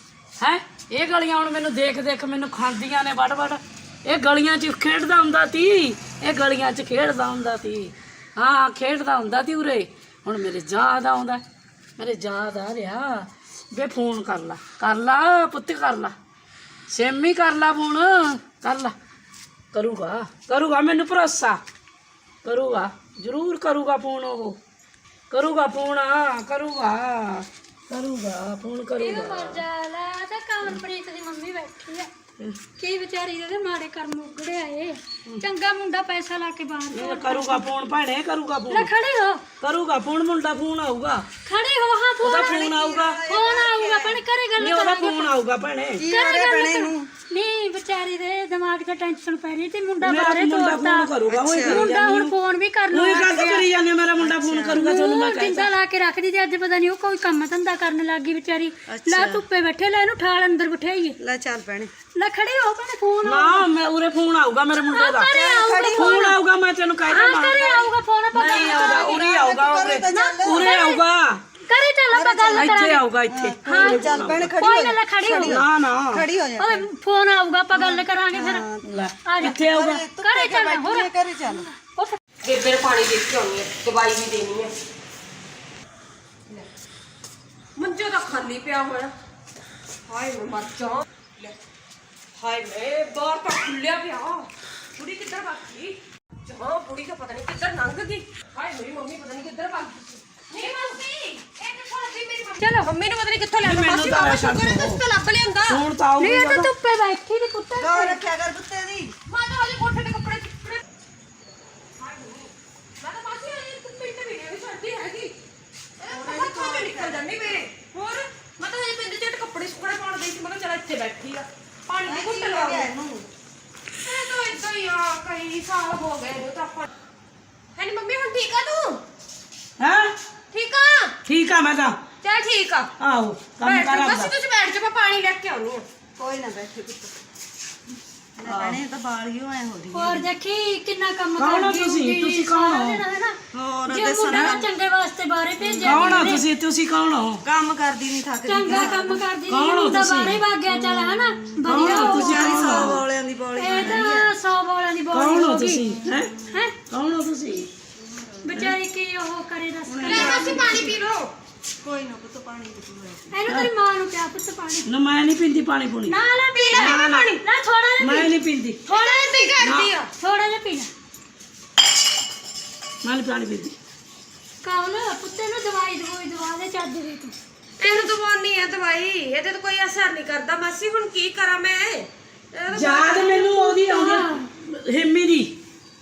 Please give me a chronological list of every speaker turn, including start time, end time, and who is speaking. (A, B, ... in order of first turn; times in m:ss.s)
0:00.4-0:11.4 A
0:12.0-0:16.2 A
0:16.9-0:19.0 A
0:19.7-0:21.6 A
0:22.4-0:24.6 A
0:25.3-0:29.6 A
0:29.0-0:32.1 B
0:32.8-0:37.7 B
0:36.9-0:38.9 A
0:38.7-0:39.4 B
0:39.6-0:41.3 A
0:41.5-0:42.7 B
0:42.2-0:43.2 A
0:42.5-0:44.2 C
0:43.3-0:45.4 B
0:44.6-0:46.1 A
0:46.0-0:47.1 C
0:46.1-0:53.7 B
0:50.0-0:52.4 A
0:51.3-0:51.9 C
0:52.9-0:55.7 A
0:54.2-0:54.8 C
0:54.7-1:01.2 B
0:58.9-0:59.4 C
1:01.2-1:01.9 C
1:02.2-1:03.7 B
1:03.2-1:05.3 A
1:04.8-1:06.4 B
1:05.3-1:06.3 C
1:06.0-1:11.4 A
1:07.1-1:09.2 B
1:08.4-1:10.8 C
1:10.1-1:11.0 B
1:11.7-1:13.0 B
1:12.1-1:16.9 C
1:12.6-1:14.5 A
1:13.7-1:15.6 B
1:15.4-1:16.3 A
1:16.6-1:18.7 B
1:17.7-1:18.9 C
1:18.8-1:20.0 A
1:19.3-1:19.6 B
1:19.5-1:21.7 C
1:20.1-1:22.2 B
1:22.4-1:24.7 D
1:27.8-1:29.1 D
1:30.1-1:31.6 D
1:32.4-1:45.8 D
1:42.6-1:42.9 B
1:43.6-1:45.0 A
1:45.6-1:46.7 A
1:46.2-1:48.2 B
1:47.8-1:49.1 C
1:49.3-1:50.8 D
1:52.0-1:55.3 D
1:56.0-2:02.9 D
1:56.1-1:57.2 C
2:02.0-2:03.3 C
2:04.0-2:06.9 D
2:07.8-2:09.0 D
2:09.8-2:10.1 A
2:10.5-2:11.1 D
2:11.3-2:12.0 A
2:12.2-2:12.9 D
2:13.0-2:14.3 A
2:13.6-2:15.8 D
2:16.2-2:17.1 C
2:18.4-2:20.3 C
2:18.4-2:18.8 A
2:19.9-2:23.4 B
2:21.4-2:23.0 A
2:23.5-2:24.7 C
2:23.9-2:26.4 B
2:24.3-2:24.6 A
2:25.6-2:26.1 C
2:25.8-2:27.4 A
2:27.4-2:29.2 C
2:28.5-2:33.0 B
2:29.5-2:30.4 A
2:30.7-2:34.3 C
2:31.6-2:33.0 A
2:33.6-2:35.8 B
2:33.7-2:34.0 A
2:35.1-2:37.7 A
2:38.0-2:38.5 C
2:38.4-2:40.7 B
2:39.9-2:41.0 C
2:40.0-2:41.3 D
2:41.8-2:43.3 C
2:43.3-2:44.9 B
2:44.8-2:46.2 A
2:46.1-2:48.3 B
2:46.6-2:47.4 D
2:46.7-2:47.3 A
2:48.0-2:48.8 A
2:48.9-2:50.1 D
2:48.9-2:49.6 B
2:49.6-2:49.9 A
2:50.2-2:50.9 B
2:53.0-2:53.8 A
2:54.6-2:57.4 B
2:57.8-3:03.4 D
3:02.7-3:05.5 A
3:03.4-3:04.4 B